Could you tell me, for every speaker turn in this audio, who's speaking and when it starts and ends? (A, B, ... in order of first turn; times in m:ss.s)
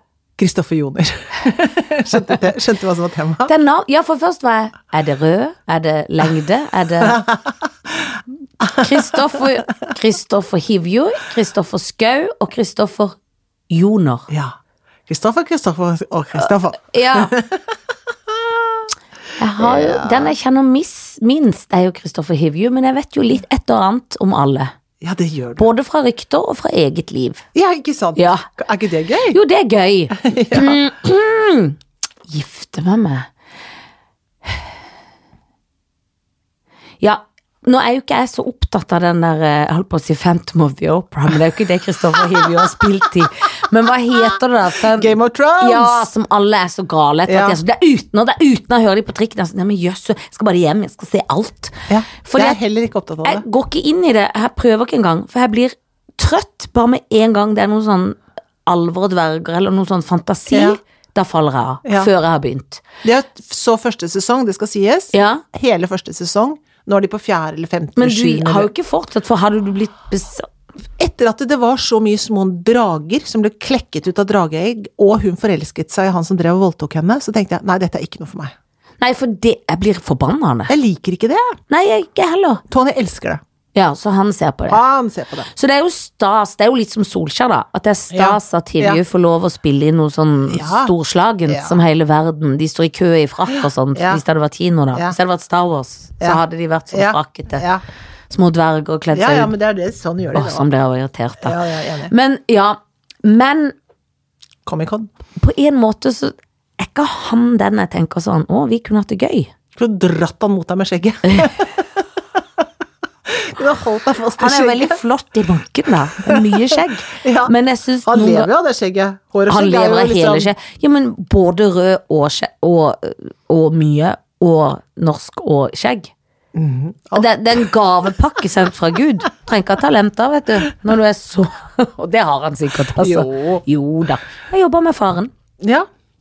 0:00.4-0:03.5 A
0:03.4-0:07.2 B
0:07.0-0:09.4 A
0:08.7-0:13.2 B
0:13.7-0:14.3 B
0:15.1-0:17.7 A
0:16.4-0:17.3 B
0:18.3-0:18.8 A
0:19.4-0:24.7 B
0:19.6-0:20.3 A
0:25.0-0:25.7 A
0:25.6-0:27.4 B
0:27.5-0:29.4 A
0:28.2-0:28.5 B
0:29.3-0:33.3 B
0:30.2-0:30.8 A
0:37.0-0:52.6 B
0:42.2-0:42.8 A
0:44.8-0:46.1 A
0:47.3-0:47.6 A
0:51.9-0:53.4 A
0:53.2-1:02.8 B
1:00.5-1:00.8 A
1:01.8-1:02.1 A
1:03.0-1:08.7 A
1:05.1-1:05.4 B
1:08.0-1:10.5 B
1:11.0-1:18.5 A
1:19.0-1:20.7 B
1:20.7-1:21.6 A
1:21.7-1:22.6 B
1:22.7-1:23.4 A
1:23.7-1:24.8 B
1:24.7-1:25.5 A
1:25.5-1:37.6 B
1:28.1-1:29.0 A
1:30.5-1:30.9 A
1:31.5-1:31.8 A
1:33.5-1:34.2 A
1:36.2-1:37.8 A
1:38.3-1:39.5 B
1:39.1-1:40.7 A
1:40.3-1:43.7 B
1:41.4-1:42.1 A
1:44.6-1:45.1 A
1:45.4-1:49.5 B
1:49.8-1:52.6 A
1:51.2-1:51.5 B
1:53.3-1:55.0 A
1:54.4-1:58.5 B
1:56.2-1:57.5 A
1:58.0-2:00.5 A
1:59.5-2:06.1 B
2:06.5-2:07.7 A
2:07.1-2:15.3 B
2:13.0-2:13.6 A
2:15.6-2:15.9 A